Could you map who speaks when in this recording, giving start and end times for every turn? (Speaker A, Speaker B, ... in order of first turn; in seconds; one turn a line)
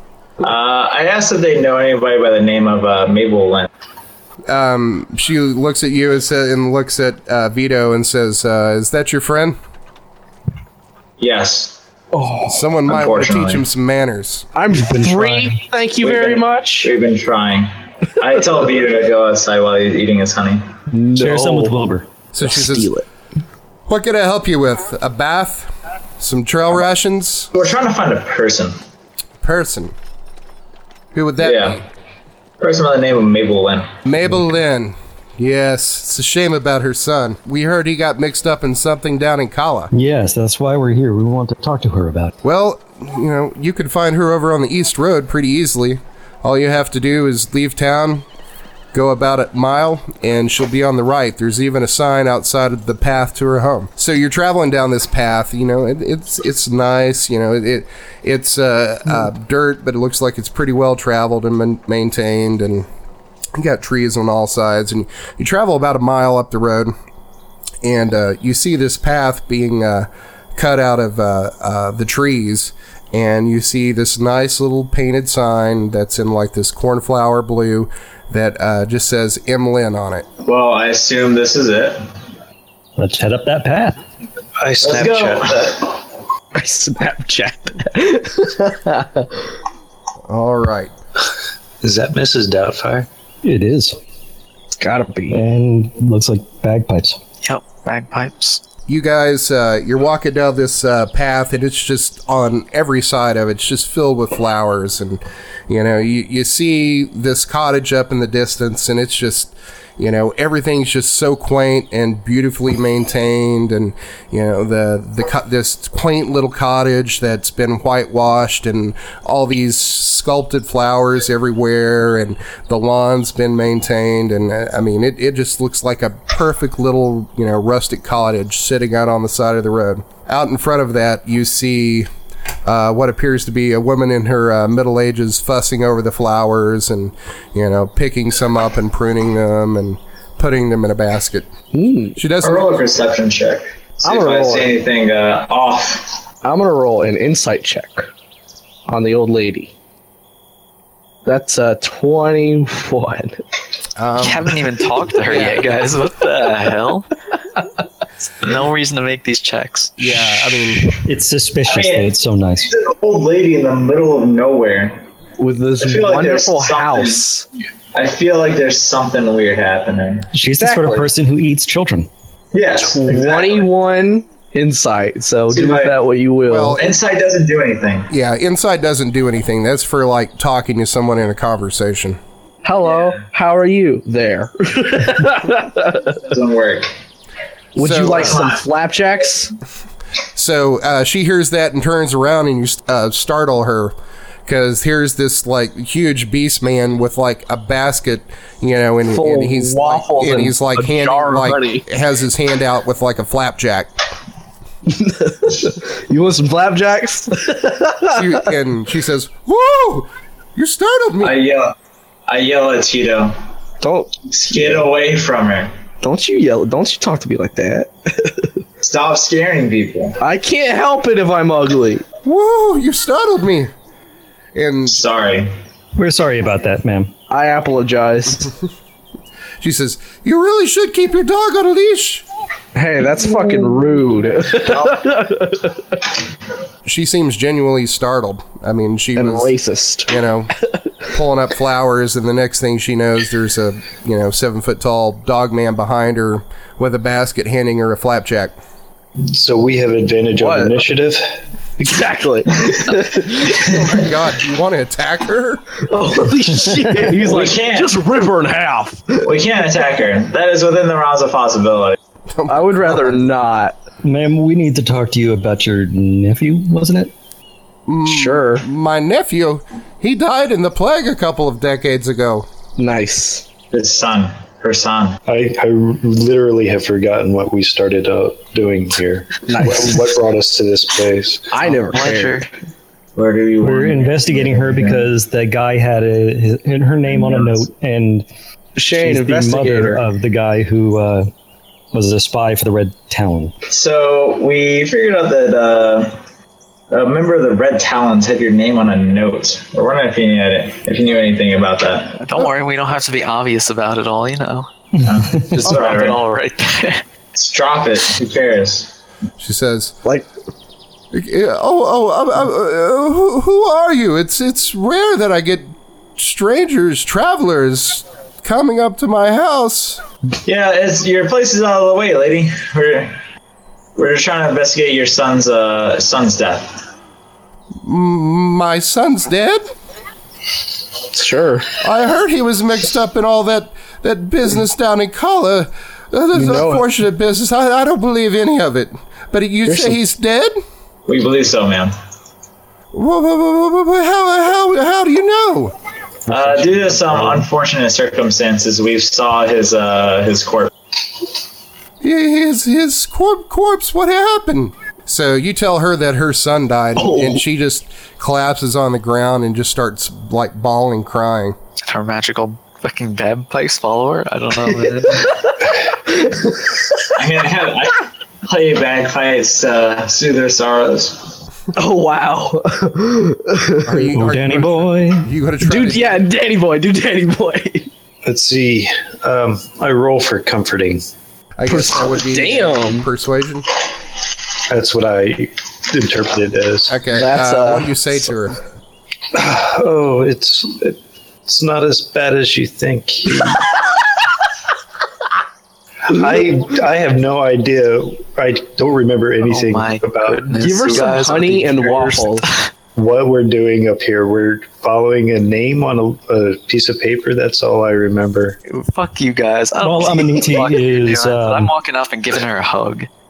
Speaker A: 0.4-3.7
Speaker B: 4.5-9.6
Speaker A: 11.2-11.8
Speaker C: 12.1-12.6
Speaker B: 12.4-14.4
Speaker A: 12.8-13.6
Speaker C: 14.5-16.9
Speaker D: 14.8-15.6
Speaker A: 16.0-20.6
Speaker C: 20.9-21.7
Speaker D: 21.1-22.1
Speaker B: 22.3-22.9
Speaker C: 22.4-23.0
Speaker B: 23.9-27.5
Speaker A: 27.5-28.8
Speaker B: 29.4-29.9
Speaker B: 31.1-31.8
Speaker A: 31.4-31.8
Speaker A: 32.6-33.9
Speaker B: 34.0-39.9
Speaker D: 39.9-42.3
Speaker B: 42.4-48.2
Speaker B: 48.9-62.9
Speaker B: 63.5-66.9
Speaker B: 67.8-80.2
Speaker A: 80.4-82.0
Speaker D: 83.0-84.0
Speaker E: 84.6-85.6
Speaker A: 84.8-86.0
Speaker C: 86.5-89.3
Speaker B: 90.3-90.9
Speaker E: 91.8-93.1
Speaker D: 93.4-94.0
Speaker C: 94.8-95.4
Speaker D: 95.3-97.2
Speaker F: 97.4-98.6
Speaker B: 98.9-132.1
Speaker B: 132.6-141.5
Speaker C: 141.7-142.2
Speaker B: 142.2-142.7
Speaker A: 142.4-146.2
Speaker C: 144.0-144.7
Speaker C: 146.4-148.1
Speaker C: 148.9-149.7
Speaker C: 151.2-153.4
Speaker B: 154.0-154.5
Speaker F: 154.2-157.1
Speaker B: 155.2-155.7
Speaker F: 158.4-160.3
Speaker B: 160.0-160.8
Speaker D: 161.0-162.7
Speaker A: 161.7-162.1
Speaker A: 162.6-165.0
Speaker C: 165.4-167.4
Speaker A: 165.8-167.2
Speaker A: 167.9-170.3
Speaker D: 170.3-172.1
Speaker C: 170.6-171.1
Speaker A: 172.5-173.7
Speaker C: 172.8-176.8
Speaker A: 175.5-176.0
Speaker B: 176.4-176.8
Speaker A: 176.8-178.1
Speaker B: 178.1-182.2
Speaker C: 182.6-186.2
Speaker A: 182.8-183.2
Speaker A: 186.2-186.9
Speaker C: 187.7-189.5
Speaker B: 187.8-188.4
Speaker A: 188.3-188.6
Speaker B: 190.3-193.9
Speaker B: 194.5-204.0
Speaker C: 199.1-201.9
Speaker C: 204.9-208.3
Speaker B: 208.1-211.4
Speaker A: 211.2-211.7
Speaker A: 212.3-213.3
Speaker C: 213.8-214.1
Speaker A: 214.3-215.7
Speaker C: 216.0-218.5
Speaker A: 218.8-220.2
Speaker C: 220.2-222.0
Speaker B: 222.2-223.7
Speaker B: 224.5-225.0
Speaker A: 224.9-225.5
Speaker D: 225.9-227.1
Speaker C: 227.3-228.5
Speaker B: 229.6-232.2
Speaker C: 232.7-235.8
Speaker B: 236.8-239.5
Speaker C: 239.2-240.2
Speaker B: 240.1-240.5
Speaker B: 241.1-248.5
Speaker E: 249.2-251.2
Speaker C: 250.3-250.8
Speaker C: 251.8-253.7
Speaker B: 253.6-255.8
Speaker C: 255.9-259.2
Speaker A: 257.2-257.9
Speaker A: 259.2-262.0
Speaker B: 262.3-263.1
Speaker C: 262.5-263.8
Speaker D: 264.0-267.1
Speaker B: 267.9-272.5
Speaker C: 268.1-268.6
Speaker C: 272.8-273.4
Speaker A: 273.7-275.2
Speaker E: 275.3-281.6
Speaker C: 279.5-280.1
Speaker C: 281.5-282.5
Speaker F: 281.7-282.5
Speaker A: 283.1-285.1
Speaker D: 283.6-288.2
Speaker A: 287.1-287.6
Speaker C: 288.8-290.0
Speaker D: 288.9-291.3
Speaker D: 291.9-293.5
Speaker A: 293.7-296.2
Speaker A: 296.9-302.2
Speaker F: 302.2-304.7
Speaker A: 305.0-306.2
Speaker F: 305.6-307.0
Speaker A: 307.3-308.9
Speaker B: 309.4-309.9
Speaker B: 311.1-320.0
Speaker A: 320.4-323.2
Speaker A: 323.9-326.8
Speaker B: 327.8-329.7
Speaker C: 331.1-331.7
Speaker B: 331.8-340.6
Speaker C: 336.3-336.9
Speaker C: 339.6-340.0
Speaker A: 341.1-341.9
Speaker B: 342.9-345.7
Speaker A: 346.3-350.7
Speaker D: 346.5-347.4
Speaker B: 352.0-361.6
Speaker C: 357.0-357.4
Speaker F: 361.8-365.3
Speaker C: 365.0-365.5
Speaker C: 366.1-366.8
Speaker A: 367.1-371.4
Speaker C: 371.7-374.1
Speaker B: 373.9-376.2
Speaker D: 374.1-375.3
Speaker C: 375.6-377.9
Speaker E: 378.2-381.0
Speaker B: 381.6-383.7
Speaker C: 381.7-383.1
Speaker E: 384.7-387.0
Speaker B: 386.9-388.6
Speaker C: 387.1-388.1
Speaker E: 389.3-393.6
Speaker E: 396.1-401.1
Speaker F: 399.4-402.6
Speaker C: 400.5-402.5
Speaker E: 402.9-408.6
Speaker F: 408.7-413.1
Speaker D: 409.8-411.7